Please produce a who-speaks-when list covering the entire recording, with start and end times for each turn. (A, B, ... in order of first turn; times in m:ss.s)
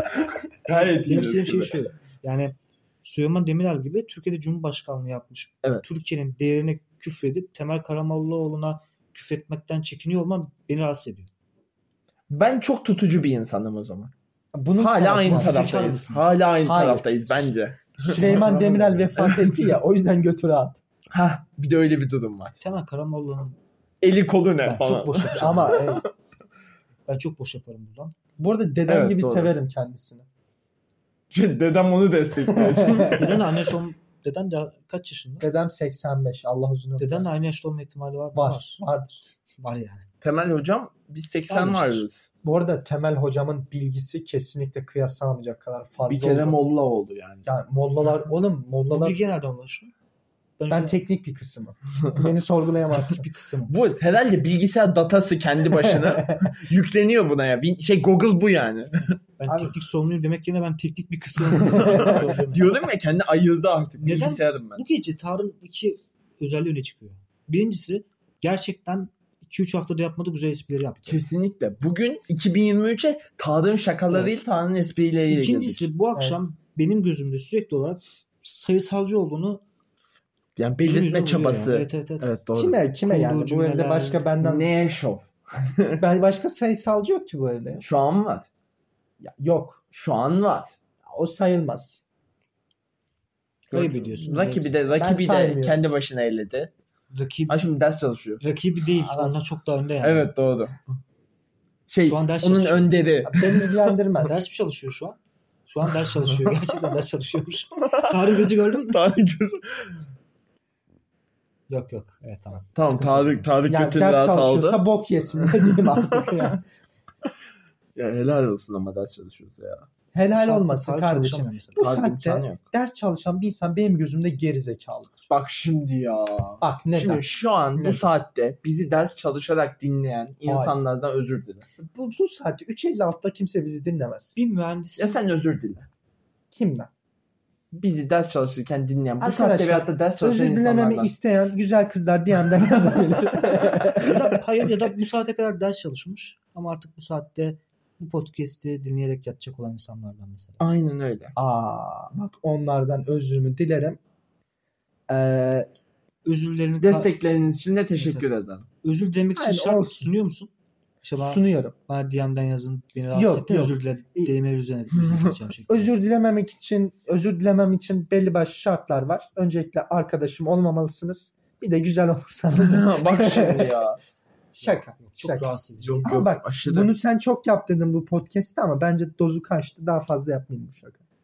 0:00.6-0:01.8 A
0:00.7-0:11.3 B
0:12.3-0:14.1 A
0:14.5-0:15.8 C
0:14.8-0:18.4 A
0:15.2-0:16.2 B
0:16.6-0:17.3 C
0:18.0-0:19.1 B
0:18.0-0:20.8 C
0:19.2-0:19.8 A
0:21.1-0:22.6 A
0:22.6-0:23.6 B
0:24.0-0:26.0 A
0:24.6-0:25.8 B
0:25.4-0:26.1 C
0:27.1-0:28.2 B
0:28.4-0:30.2 C
0:28.9-0:29.5 A
0:31.3-0:33.6 A
0:32.5-0:33.2 C
0:33.1-0:35.4 B
0:35.4-0:37.4 C
0:37.0-0:38.8 B
0:38.3-0:39.2 C
0:39.6-0:40.0 B
0:40.2-0:42.2 A
0:41.5-0:42.0 B
0:42.4-0:46.6 C
0:46.1-0:47.4 A
0:47.4-0:49.2 C
0:48.9-0:49.9 B
0:50.6-0:51.0 B
0:50.7-0:53.2 C
0:52.9-0:53.7 B
0:53.7-0:59.1 A
0:55.8-0:56.5 C
0:59.4-1:02.9 B
0:59.5-0:59.7 C
1:01.6-1:04.8 A
1:01.6-1:02.2 C
1:04.0-1:11.2 B
1:11.0-1:15.9 A
1:15.3-1:19.6 B
1:16.1-1:16.4 C
1:20.6-1:22.8 A
1:20.8-1:22.3 B
1:22.5-1:24.7 C
1:23.0-1:24.2 B
1:24.4-1:26.0 A
1:26.0-1:27.8 C
1:27.8-1:28.5 A
1:29.2-1:29.8 C
1:29.9-1:30.8 A
1:31.1-1:32.0 C
1:33.7-1:34.8 B
1:33.7-1:36.7 A
1:35.0-1:35.8 C
1:37.1-1:37.6 B
1:37.5-1:38.4 A
1:38.4-1:40.3 B
1:39.0-1:39.5 C
1:40.0-1:40.8 A
1:41.9-1:44.0 A
1:42.0-1:43.0 B
1:43.2-1:44.4 C
1:44.2-1:49.0 B
1:46.3-1:47.0 A
1:47.8-1:50.0 A
1:51.7-1:53.5 B
1:52.8-1:54.8 A
1:53.6-1:56.6 C
1:55.4-1:56.5 A
1:58.0-1:59.9 A
2:00.1-2:05.3 C
2:00.3-2:01.9 B
2:01.8-2:02.6 A
2:05.3-2:11.6 A
2:06.6-2:08.0 C
2:10.4-2:10.8 C
2:11.8-2:14.4 C
2:14.4-2:15.1 B
2:15.0-2:15.9 A
2:16.5-2:16.9 C
2:17.7-2:21.1 A
2:19.2-2:24.4 C
2:22.9-2:24.1 A
2:23.9-2:30.6 B
2:30.6-2:31.3 A
2:31.4-2:34.0 C
2:35.1-2:35.7 C
2:36.2-2:37.1 B
2:36.8-2:38.6 A
2:38.0-2:38.2 B
2:38.8-2:40.5 B
2:39.4-2:40.1 C
2:41.0-2:45.9 B
2:41.2-2:41.7 C
2:43.1-2:44.3 C
2:44.9-2:45.4 A
2:45.7-2:53.8 C
2:52.5-2:54.0 A
2:54.5-2:55.5 C
2:54.6-2:56.1 B
2:55.8-2:56.9 A
2:56.0-3:01.0 C